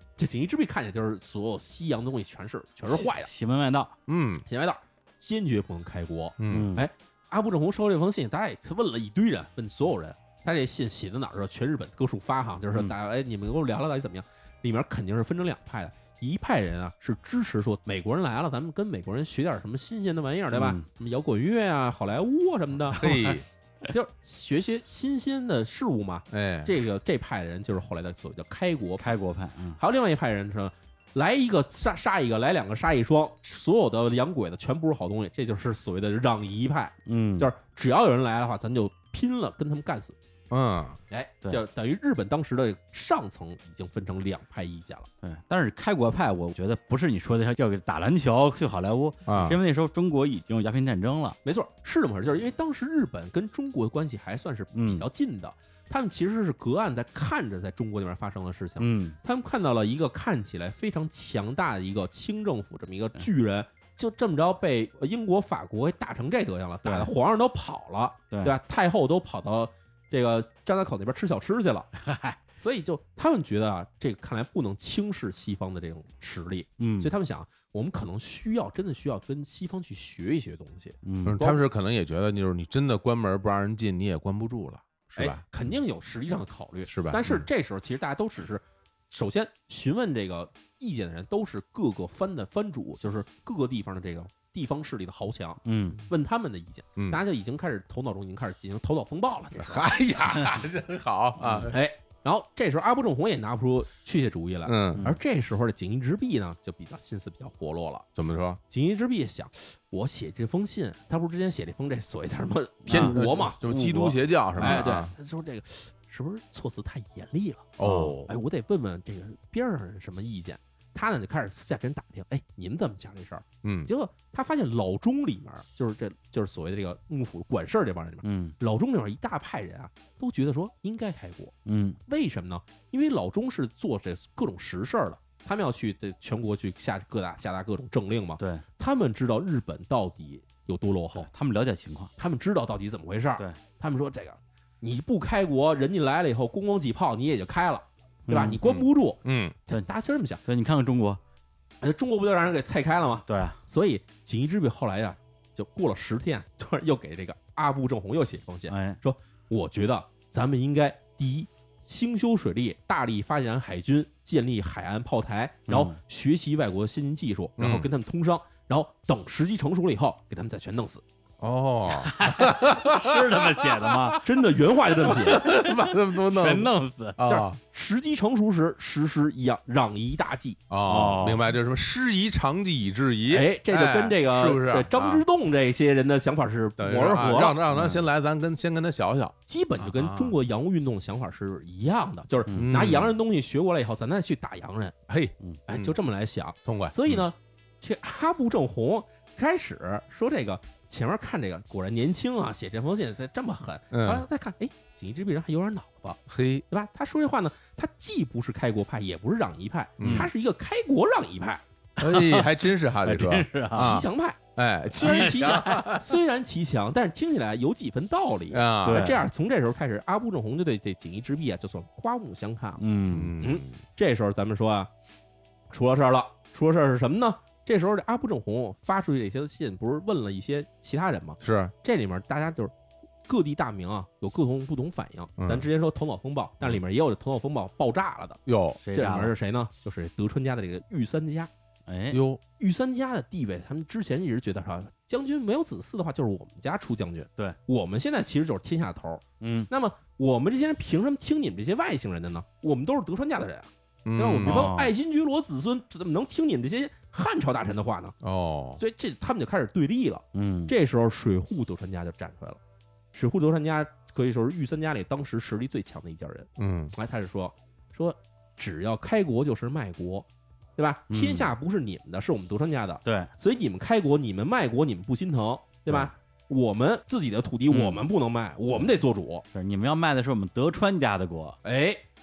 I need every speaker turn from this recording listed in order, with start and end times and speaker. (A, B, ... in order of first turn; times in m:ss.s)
0:00.2-0:03.3 A
0:02.9-0:03.9 B
0:04.1-0:04.4 C
0:04.5-0:23.1 A
0:06.4-0:06.7 C
0:06.5-0:06.9 B
0:20.5-0:20.8 B
0:22.9-0:23.5 C
0:23.0-0:23.4 B
0:23.8-0:29.1 A
0:26.3-0:26.7 C
0:29.0-0:29.8 B
0:29.8-0:40.2 A
0:37.1-0:37.5 B
0:40.5-0:41.0 C
0:41.1-0:45.1 A
0:45.2-0:51.4 B
0:49.3-0:49.6 C
0:51.4-1:11.9 A
0:54.7-0:55.1 B
0:58.8-0:59.2 B
1:06.8-1:07.1 B
1:08.3-1:08.6 B
1:12.0-1:12.4 B
1:12.6-1:21.6 A
1:16.8-1:17.1 B
1:21.0-1:21.4 B
1:21.2-1:25.4 C
1:25.2-1:39.9 A
1:26.9-1:27.4 C
1:35.6-1:36.0 B
1:37.0-1:37.2 C
1:39.6-1:41.8 C
1:41.4-1:41.7 B
1:41.7-1:48.1 A
1:44.7-1:45.0 C
1:48.2-1:48.6 C
1:48.7-2:11.5 A
1:52.9-1:53.2 B
1:52.9-1:55.1 C
1:54.6-1:54.9 B
1:57.8-1:58.3 C
1:57.8-1:58.1 B
2:03.6-2:03.9 C
2:08.2-2:08.6 B
2:11.6-2:12.0 B
2:12.1-2:21.3 A
2:18.4-2:18.6 B
2:21.2-2:22.1 B
2:22.2-2:30.4 A
2:28.3-2:28.6 B
2:28.6-2:29.6 C
2:30.4-2:31.2 B
2:31.8-2:51.0 A
2:33.3-2:33.6 B
2:38.7-2:39.0 B
2:45.7-2:46.0 B
2:47.6-2:47.9 C
2:51.4-2:54.2 C
2:51.9-2:54.2 B
2:54.2-2:55.4 A
2:55.0-2:57.6 C
2:55.0-2:57.2 B
2:57.3-3:00.6 A
3:00.7-3:05.2 C
3:00.8-3:01.5 B
3:03.3-3:07.6 A
3:06.8-3:10.4 C
3:07.7-3:08.0 B
3:09.5-3:15.0 A
3:12.5-3:12.8 B
3:12.6-3:13.2 C
3:15.1-3:16.0 C
3:15.7-3:31.6 A
3:16.6-3:17.2 C
3:23.9-3:24.2 C
3:26.3-3:26.6 C
3:30.0-3:30.3 C
3:30.0-3:30.3 B
3:32.0-3:34.0 B
3:32.0-3:36.2 C
3:33.8-3:34.4 A
3:35.0-3:42.8 A
3:35.0-3:35.9 B
3:38.5-3:39.2 C
3:38.8-3:39.3 B
3:42.8-3:43.4 B
3:43.1-3:43.8 C
3:43.4-3:44.9 A
3:45.7-3:52.7 A
3:51.4-3:51.7 C
3:53.3-3:58.4 A
3:55.4-3:55.7 C
3:58.5-3:58.8 C
3:58.8-3:59.3 B
3:58.9-4:01.5 A
4:01.9-4:02.2 B
4:02.1-4:02.4 C
4:02.6-4:18.2 A
4:09.4-4:09.7 B
4:14.0-4:14.7 C
4:14.4-4:14.9 B
4:18.2-4:18.8 C
4:18.8-4:22.6 A
4:20.3-4:20.7 B
4:23.1-4:39.4 A
4:26.6-4:26.9 C
4:31.1-4:31.5 B
4:33.0-4:33.3 B
4:37.7-4:38.1 B
4:39.5-4:41.6 B
4:41.6-4:42.0 A